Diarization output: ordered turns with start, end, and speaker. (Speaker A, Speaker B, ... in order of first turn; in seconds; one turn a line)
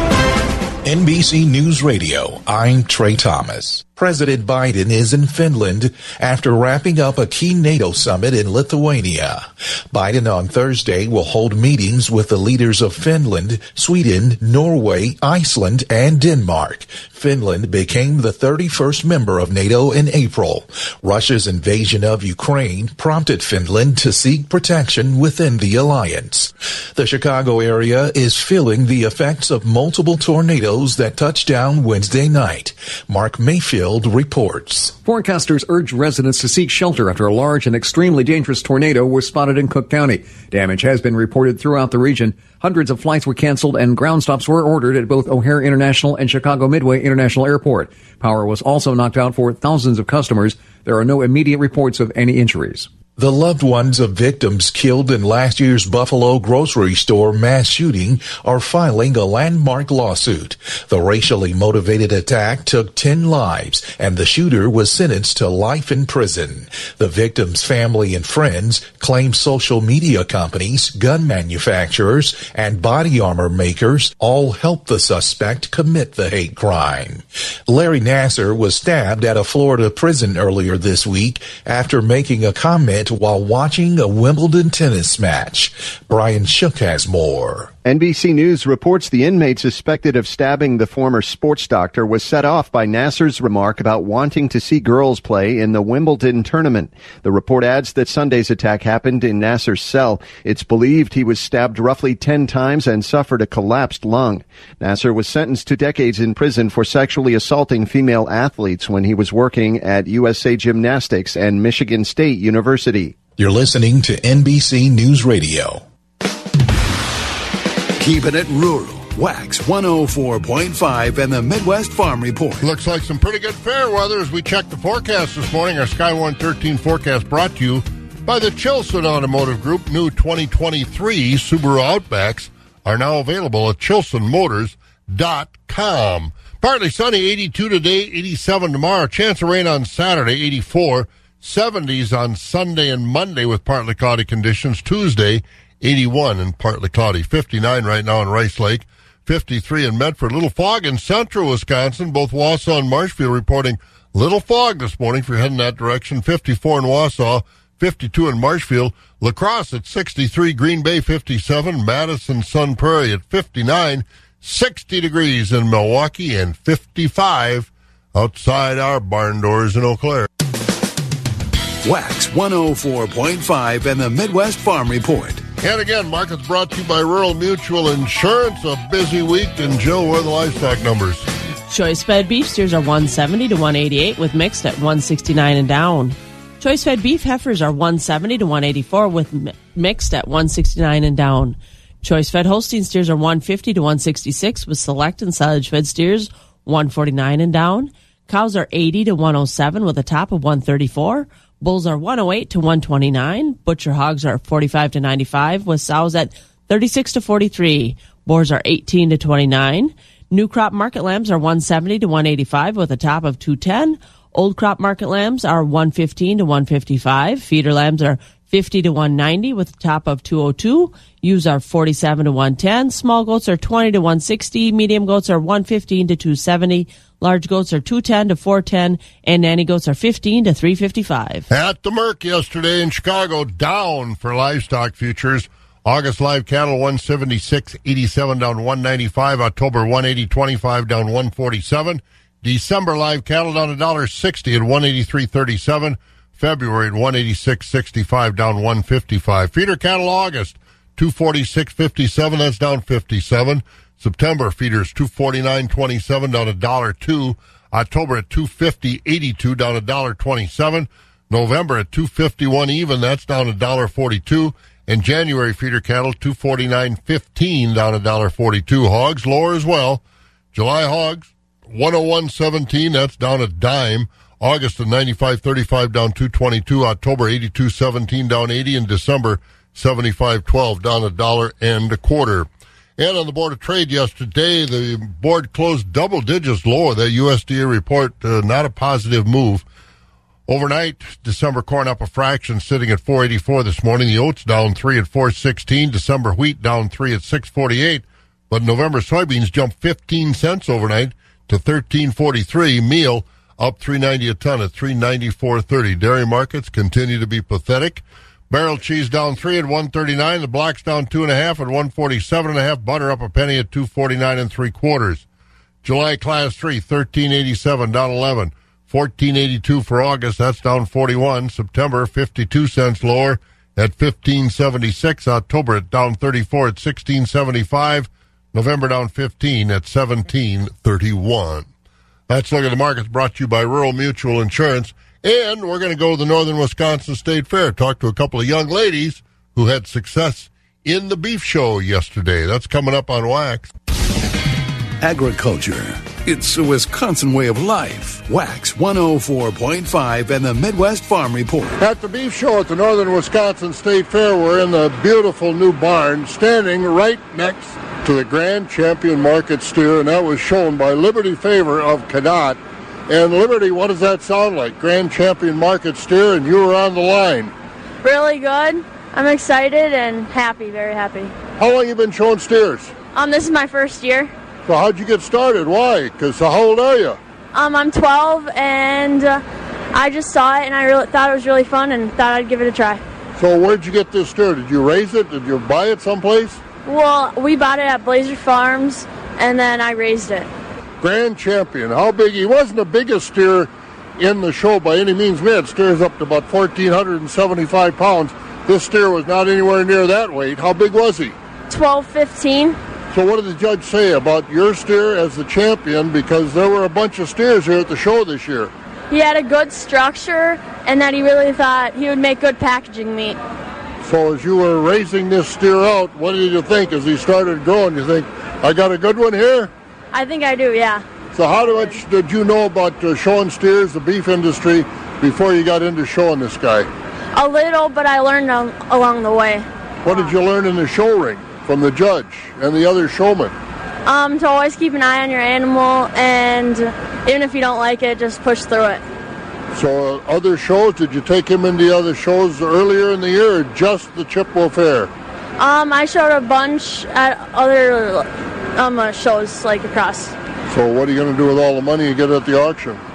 Speaker A: 0.8-35.0
Speaker B: 35.0-52.9
Speaker A: 53.2-87.7
Speaker C: 87.8-113.2
Speaker A: 113.4-115.8
Speaker D: 118.0-122.7
Speaker E: 122.6-170.3
Speaker D: 171.8-175.4
Speaker E: 175.6-181.3
Speaker F: 181.7-231.5
Speaker E: 231.5-270.0
Speaker E: 270.5-289.6
Speaker E: 290.5-315.2
Speaker E: 315.8-331.7
Speaker E: 332.3-343.7
Speaker D: 345.0-351.8
Speaker E: 351.8-367.5
Speaker G: 368.0-371.3
Speaker E: 371.6-372.9
Speaker G: 373.1-374.3
Speaker E: 374.7-377.2
Speaker G: 377.5-379.4
Speaker G: 379.9-383.0
Speaker E: 383.4-386.6
Speaker G: 386.9-390.5
Speaker E: 391.0-401.4
Speaker G: 401.7-402.8
Speaker E: 403.1-408.7
Speaker G: 409.1-413.4
Speaker E: 414.0-419.7
Speaker G: 420.1-421.0
Speaker E: 421.4-426.9
Speaker G: 427.4-430.2
Speaker E: 430.0-433.6
Speaker G: 434.1-439.0
Speaker E: 439.7-445.1
Speaker G: 445.6-450.4
Speaker E: 450.7-453.0